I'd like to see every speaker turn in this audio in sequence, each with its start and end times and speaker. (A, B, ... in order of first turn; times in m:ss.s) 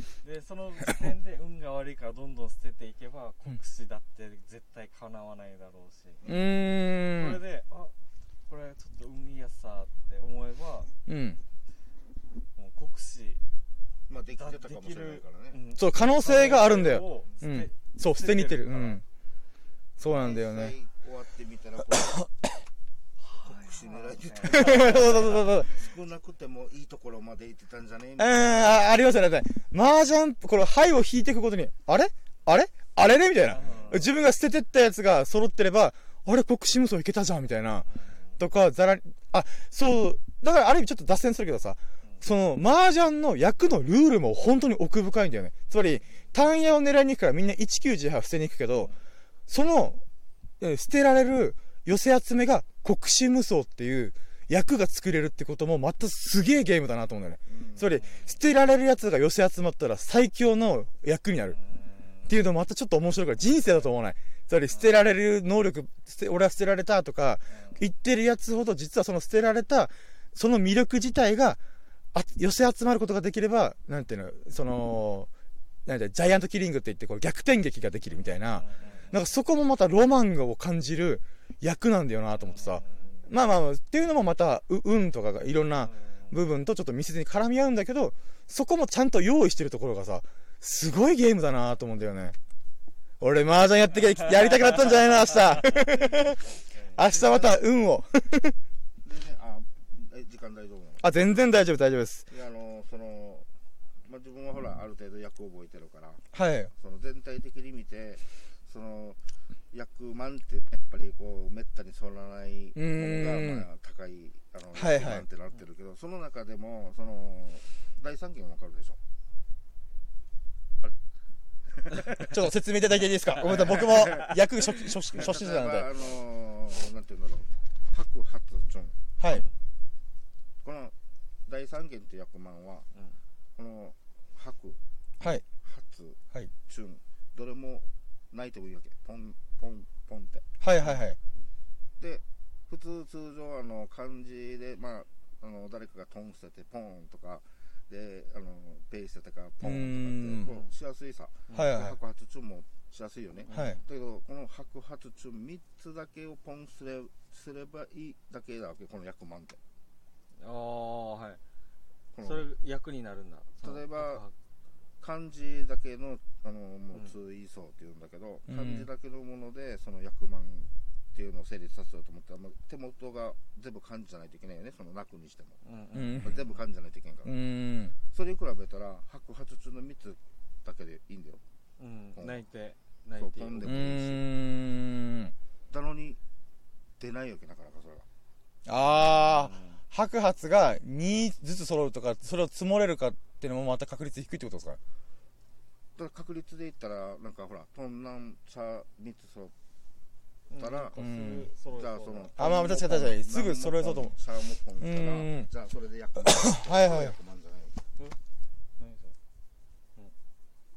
0:00.2-0:06.2 A
0:06.2-0:06.5 B
0:06.2-0:07.4 C
0:07.0-0:07.9 A
0:08.5-0:10.9 A
0:11.1-0:11.4 C
0:12.6-0:13.4 A
0:14.1-0:15.6 B
0:14.4-0:19.0 A
0:15.7-0:19.0 C
0:20.0-0:20.7 C
0:20.0-0:22.1 B
0:21.9-0:22.6 C
0:23.2-0:25.3 A
0:23.4-0:28.8 B
0:24.4-0:25.7 C
0:28.2-0:37.9 C
0:33.5-0:34.1 A
0:37.8-0:38.4 A
0:38.4-0:48.9 C
0:49.5-0:50.0 C
0:50.6-1:01.6 C
0:57.5-0:58.0 B
0:58.0-0:58.3 A
1:01.5-1:02.3 A
1:02.3-1:11.6 C
1:07.5-1:07.8 A
1:12.1-1:15.3 C
1:15.8-1:32.3 C
1:18.2-1:19.3 A
1:22.4-1:23.3 A
1:25.8-1:26.3 A
1:33.2-1:36.4 C
1:34.4-1:37.5 A
1:37.0-1:38.6 C
1:39.0-1:41.0 B
1:41.0-1:42.3 C
1:42.3-1:43.5 B
1:44.0-1:59.0 B
1:46.3-1:46.7 C
1:52.8-1:53.6 C
1:54.7-1:55.2 C
2:01.6-2:02.3 B
2:02.2-2:05.9 C
2:03.3-2:04.4 A
2:03.4-2:04.4 B
2:05.1-2:09.0 B
2:09.2-2:09.4 C
2:10.6-2:10.9 B
2:11.4-2:12.9 B
2:13.6-2:14.8 B
2:15.2-2:15.4 C
2:15.6-2:20.4 B
2:20.6-2:21.2 C
2:22.0-2:39.6 B
2:29.6-2:30.5 C
2:31.5-2:31.8 A
2:31.5-2:32.0 C
2:33.4-2:33.8 A
2:33.5-2:33.8 C
2:40.4-2:41.4 A
2:42.1-2:42.5 B
2:42.2-2:44.3 A
2:43.6-2:44.2 B
2:45.0-2:55.6 B
2:48.5-2:48.9 C
2:55.6-2:56.5 A
2:55.9-2:56.3 C
2:56.2-2:57.3 B
2:57.2-2:57.9 C
2:58.1-3:01.4 B
3:01.8-3:03.6 A
3:02.1-3:02.4 B
3:03.2-3:04.2 B
3:03.6-3:05.3 C
3:05.7-3:06.2 B
3:07.0-3:08.0 B
3:08.6-3:14.8 C
3:09.3-3:09.8 A
3:16.0-3:19.5 B
3:20.5-3:22.3 A
3:20.6-3:21.0 B
3:20.9-3:21.5 C
3:21.7-3:27.8 B
3:22.4-3:24.1 C
3:24.8-3:25.5 C
3:26.4-3:27.1 C
3:28.8-3:29.1 A